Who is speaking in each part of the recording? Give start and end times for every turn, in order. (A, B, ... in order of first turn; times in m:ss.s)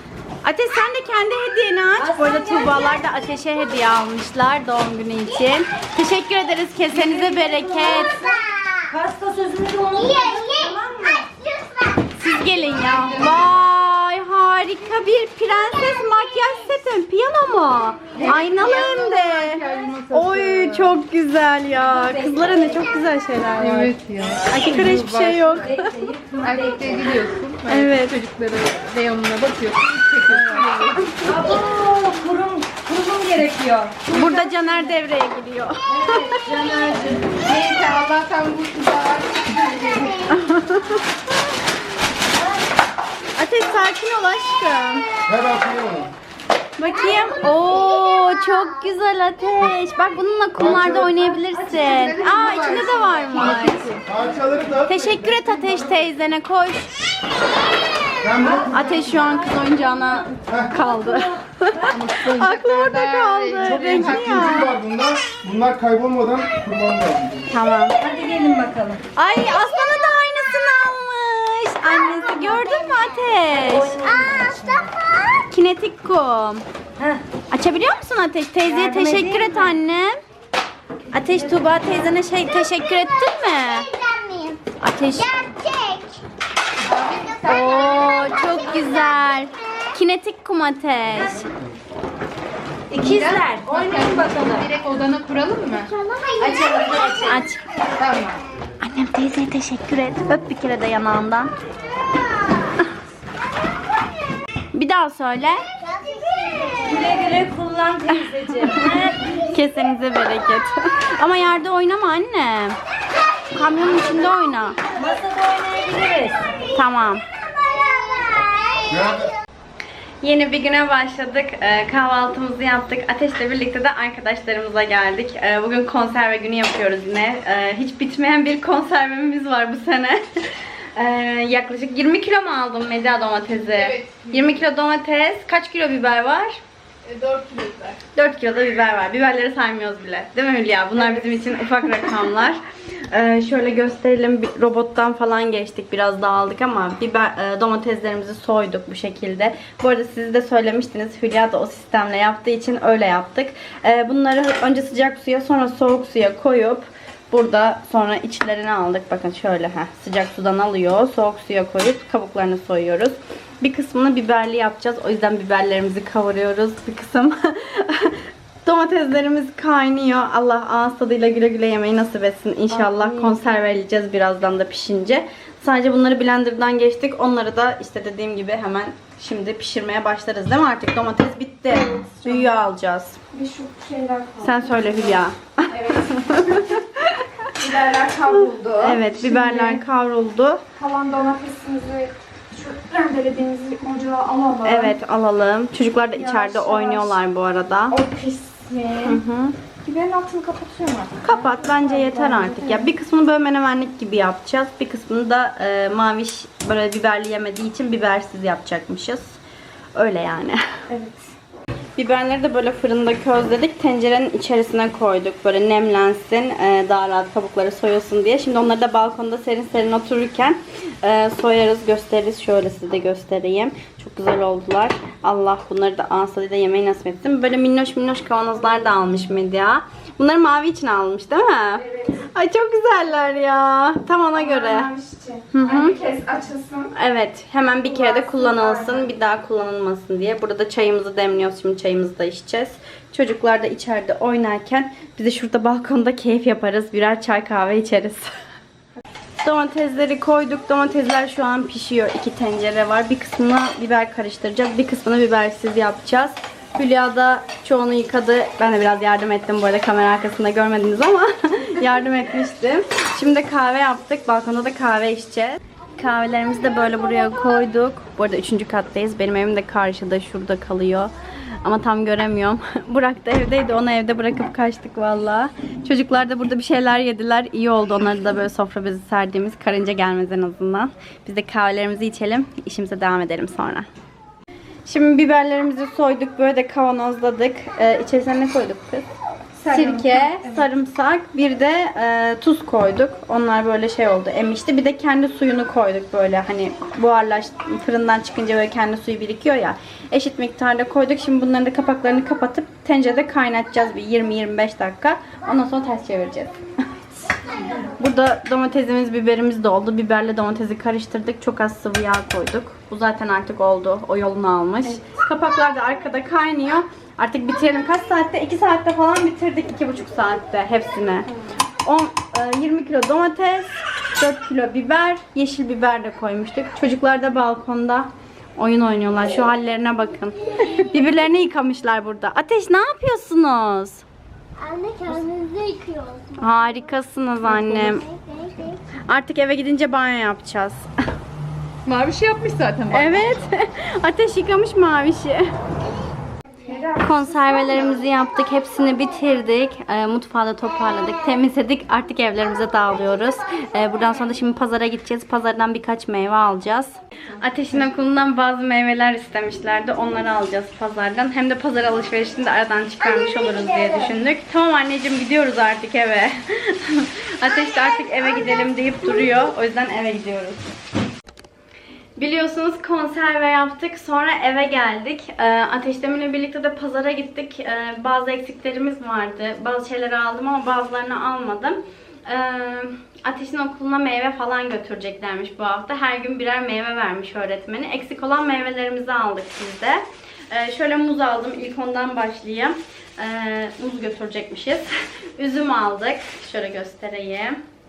0:00.4-0:08.2 A
0:02.0-0:03.0 B
0:03.1-0:03.6 C
0:06.9-0:11.3 B
0:07.8-0:08.9 C
0:10.0-0:12.3 C
0:12.2-0:23.9 A
0:12.8-0:13.4 D
0:15.6-0:16.7 C
0:18.2-0:18.5 B
0:18.2-0:21.0 D
0:21.8-0:22.8 B
0:23.6-0:25.8 D
0:24.5-0:25.9 A
0:25.6-0:27.2 B
0:26.4-0:31.3 D
0:27.7-0:28.2 A
0:31.2-0:35.0 B
0:34.1-0:36.4 A
0:35.9-0:37.4 B
0:37.0-0:40.2 D
0:40.0-0:41.0 C
0:40.3-0:41.0 A
0:42.3-0:42.6 B
0:43.4-0:45.1 A
0:45.3-0:46.1 E
0:46.8-0:54.0 A
0:47.0-0:48.8 C
0:50.6-0:51.1 E
0:51.4-0:54.2 B
0:52.3-0:54.0 D
0:53.3-0:56.0 E
0:54.9-0:57.0 A
0:58.2-0:58.9 E
0:58.4-1:02.1 B
0:58.7-1:04.8 A
1:01.9-1:04.6 D
1:03.6-1:07.5 E
1:07.5-1:08.0 A
1:08.0-1:09.0 B
1:09.2-1:14.0 A
1:11.8-1:13.3 C
1:13.7-1:14.9 B
1:14.0-1:15.4 C
1:15.5-1:16.6 A
1:17.0-1:17.2 B
1:17.5-1:20.2 A
1:18.6-1:19.8 B
1:21.1-1:23.9 A
1:21.2-1:22.0 B
1:22.8-1:26.2 C
1:24.8-1:25.4 A
1:26.9-1:28.2 D
1:27.1-1:30.0 C
1:27.5-1:31.5 A
1:31.2-1:31.5 B
1:32.9-1:34.7 B
1:33.0-1:35.9 D
1:35.8-1:37.5 C
1:36.4-1:37.4 B
1:37.3-1:37.6 A
1:38.0-1:38.4 D
1:38.8-1:41.5 A
1:42.2-1:42.9 C
1:44.7-1:45.6 A
1:45.8-1:47.3 C
1:46.8-1:49.4 B
1:48.1-1:48.9 A
1:49.2-1:49.6 C
1:49.5-1:52.8 A
1:53.5-1:54.8 A
1:53.9-1:54.3 C
1:55.0-1:56.4 B
1:56.8-1:57.2 A
1:57.5-1:59.3 C
2:00.2-2:10.3 A
2:11.0-2:16.6 A
2:13.7-2:14.6 D
2:17.0-2:18.0 D
2:18.2-3:03.2 A
2:52.7-2:53.4 F
3:01.7-3:02.5 F
3:03.3-3:06.7 F
3:04.4-3:07.4 A
3:07.6-3:09.8 F
3:07.6-3:08.9 D
3:08.8-3:10.6 A
3:10.8-3:15.0 F
3:14.6-3:18.0 A
3:16.1-3:17.2 F
3:17.9-3:19.2 F
3:19.0-3:19.6 A
3:19.8-3:22.9 F
3:21.2-3:29.4 A
3:30.0-3:30.6 A
3:30.9-3:31.3 F
3:32.0-3:54.9 A
3:51.9-3:52.3 F
3:54.3-3:56.9 F
3:55.5-3:56.0 A
3:57.0-4:08.3 A
3:57.8-3:59.1 F
4:09.4-4:43.9 A
4:44.9-4:49.1 A
4:49.6-4:50.7 F
4:49.7-5:06.5 A
5:08.0-5:21.3 A
5:21.8-5:34.0 A
5:30.6-5:31.3 C
5:34.6-5:36.8 C
5:36.4-5:38.0 A
5:37.5-5:38.8 C
5:39.1-5:40.9 A
5:41.8-5:43.5 D
5:42.9-5:45.5 A
5:46.6-5:47.8 F
5:47.0-6:10.7 A
5:47.8-5:49.1 C
5:50.7-5:51.4 C
5:52.6-5:54.3 C
6:03.0-6:04.1 C
6:07.9-6:08.5 C
6:12.2-6:37.6 A